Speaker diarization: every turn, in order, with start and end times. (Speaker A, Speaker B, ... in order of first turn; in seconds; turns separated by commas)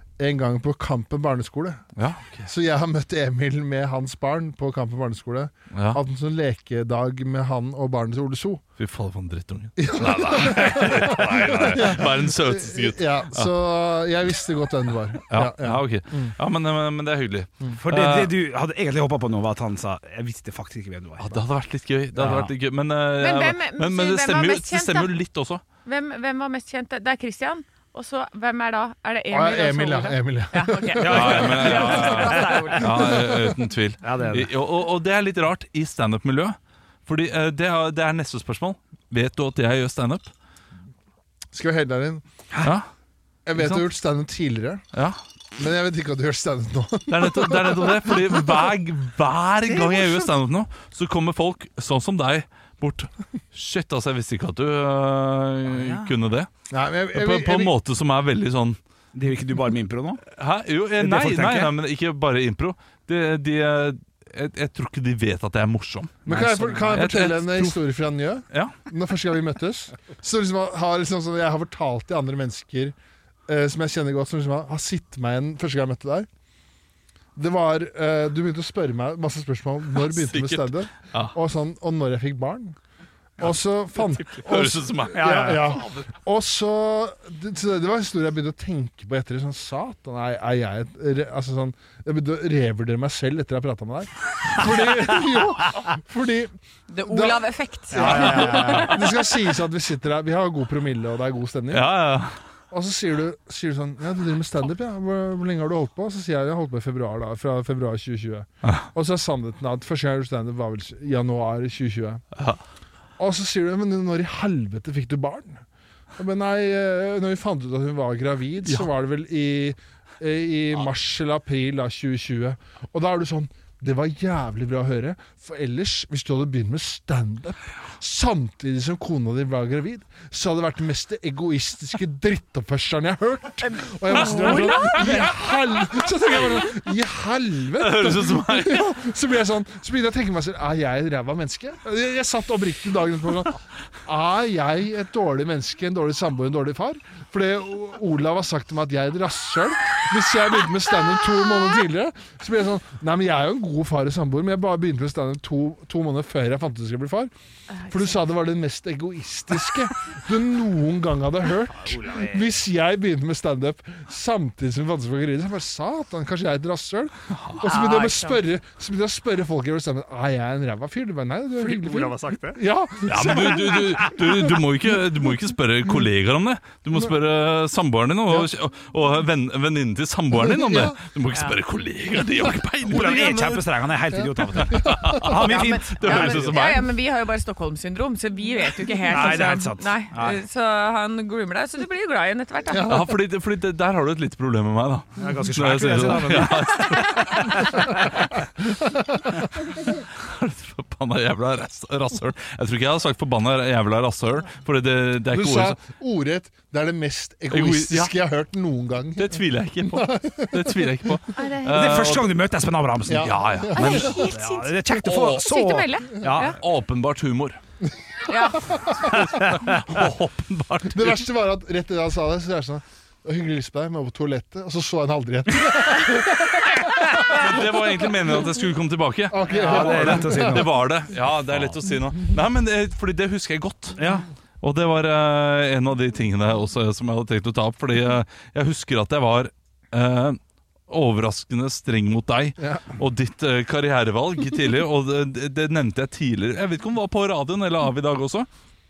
Speaker A: 0.2-1.8, Speaker B: 1.9-2.5, Speaker A: 2.5-8.6, Speaker B: 5.7-6.0, Speaker B: 8.8-13.5, Speaker A: 9.8-16.3, Speaker B: 15.3-18.4, Speaker C: 17.8-21.4, Speaker B: 21.2-25.6, Speaker C: 22.1-22.5, Speaker D: 23.2-25.1, Speaker D: 25.9-33.1, Speaker A: 29.3-31.8, Speaker C: 31.0-32.9, Speaker B: 31.0-40.3, Speaker C: 34.0-34.5, Speaker A: 41.5-42.2, Speaker B: 42.6-42.9, Speaker A: 43.5-44.9, Speaker B: 43.6-43.8, Speaker B: 44.9-45.2, Speaker A: 45.6-48.5, Speaker B: 47.1-56.5, Speaker C: 55.7-56.1, Speaker A: 56.7-57.7, Speaker B: 57.1-58.8, Speaker C: 59.1-60.2, Speaker B: 60.2-67.8, Speaker C: 61.0-61.7, Speaker A: 66.2-72.9, Speaker A: 73.5-76.3, Speaker A: 77.4-82.8, Speaker B: 80.0-81.4, Speaker A: 83.4-96.5, Speaker B: 84.4-86.1, Speaker C: 85.1-85.8, Speaker D: 96.9-99.0, Speaker A: 97.1-101.9, Speaker C: 97.9-99.0, Speaker B: 101.7-102.4, Speaker A: 102.7-112.2, Speaker A: 113.2-115.6, Speaker A: 116.2-157.3, Speaker D: 134.1-135.2, Speaker B: 134.1-135.2, Speaker B: 137.8-138.9, Speaker D: 157.7-158.2, Speaker A: 157.9-174.0, Speaker C: 161.8-162.5, Speaker B: 167.3-167.6, Speaker D: 167.6-168.4, Speaker C: 171.6-172.6, Speaker B: 173.0-183.7, Speaker C: 173.8-174.1, Speaker A: 180.4-181.0, Speaker C: 182.9-186.7, Speaker A: 184.6-185.3, Speaker B: 184.6-186.8, Speaker D: 185.3-192.9, Speaker C: 189.1-190.4, Speaker A: 192.7-193.2, Speaker B: 192.9-197.8, Speaker C: 195.2-197.9, Speaker D: 196.9-197.4, Speaker A: 198.8-199.3, Speaker B: 199.7-205.8, Speaker A: 205.3-211.1, Speaker B: 207.5-208.1, Speaker B: 209.2-212.3, Speaker D: 211.4-212.1, Speaker C: 211.7-216.6, Speaker A: 213.1-214.1, Speaker B: 213.2-214.1, Speaker D: 213.8-214.8, Speaker B: 215.1-215.4, Speaker D: 215.4-216.6, Speaker B: 216.4-217.6, Speaker D: 218.3-218.7, Speaker A: 218.7-219.1, Speaker B: 219.1-221.2, Speaker A: 220.9-227.6, Speaker B: 227.2-234.0, Speaker A: 229.3-230.7, Speaker C: 229.5-230.8, Speaker C: 234.0-234.3, Speaker B: 234.6-248.5, Speaker A: 242.6-242.9